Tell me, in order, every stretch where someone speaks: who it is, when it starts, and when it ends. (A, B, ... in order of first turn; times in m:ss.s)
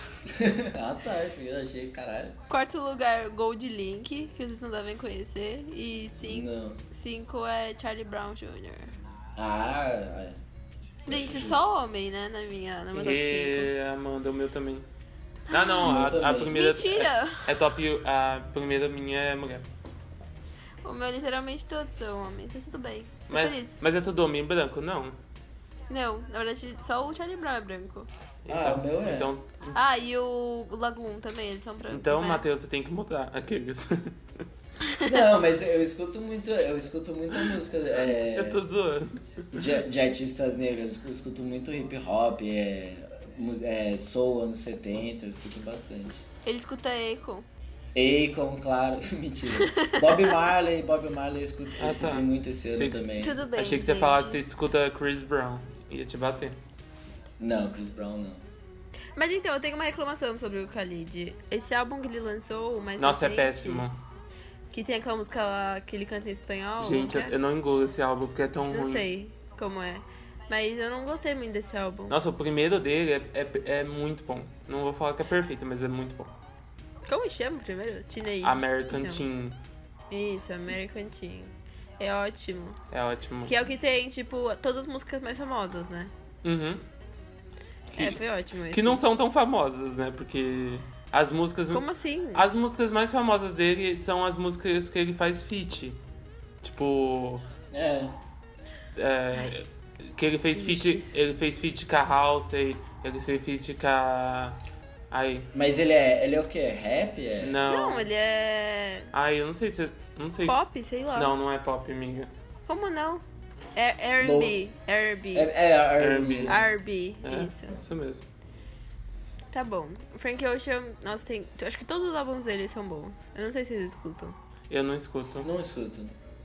0:00.3-0:02.4 A
0:02.5-0:08.9 B
0:06.2-0:06.8 A
0:09.4-0:10.4 A
0:11.1-0:13.7 B
0:11.1-0:11.7 A
0:12.9-0:14.9 C
0:15.5-0:15.9 B
0:15.5-0:19.7 C
0:15.8-0:16.6 A
0:16.5-0:17.5 B
0:20.8-0:23.8 B
0:23.3-0:25.2 C
0:25.9-0:28.1 B
0:28.4-0:29.8 C
0:28.5-0:29.3 A
0:29.7-0:32.4 B
0:31.9-0:34.2 C
0:35.0-0:38.6 A
0:37.3-0:37.6 C
0:38.2-0:39.7 C
0:39.5-0:46.2 A
0:46.4-0:47.5 B
0:48.0-0:53.4 A
0:49.5-0:50.4 B
0:51.8-0:56.6 C
0:53.2-0:54.4 B
0:57.4-0:58.4 A
0:59.2-1:03.8 B
1:03.0-1:04.0 C
1:04.7-1:07.3 B
1:06.8-1:09.1 C
1:08.7-1:12.2 B
1:12.1-1:16.3 C
1:17.1-1:19.2 B
1:18.4-1:19.6 C
1:20.1-1:22.8 B
1:22.9-1:23.5 C
1:23.5-1:26.1 B
1:26.4-1:26.8 C
1:27.9-1:36.0 C
1:27.9-1:29.0 B
1:31.7-1:32.5 B
1:36.6-1:37.5 C
1:37.7-1:38.2 A
1:39.0-1:44.6 C
1:40.5-1:41.2 B
1:45.1-1:45.5 C
1:45.5-1:47.6 A
1:47.4-1:48.1 C
1:47.7-1:49.1 B
1:49.1-1:50.6 C
1:50.5-1:51.3 B
1:51.2-1:52.3 C
1:52.7-1:53.2 B
1:53.8-1:55.5 B
1:54.2-1:54.6 A
1:55.3-1:56.6 A
1:56.0-1:56.7 C
1:56.5-1:57.8 B
1:57.2-1:58.2 C
1:59.5-2:04.4 B
2:04.7-2:05.5 C
2:05.4-2:06.1 A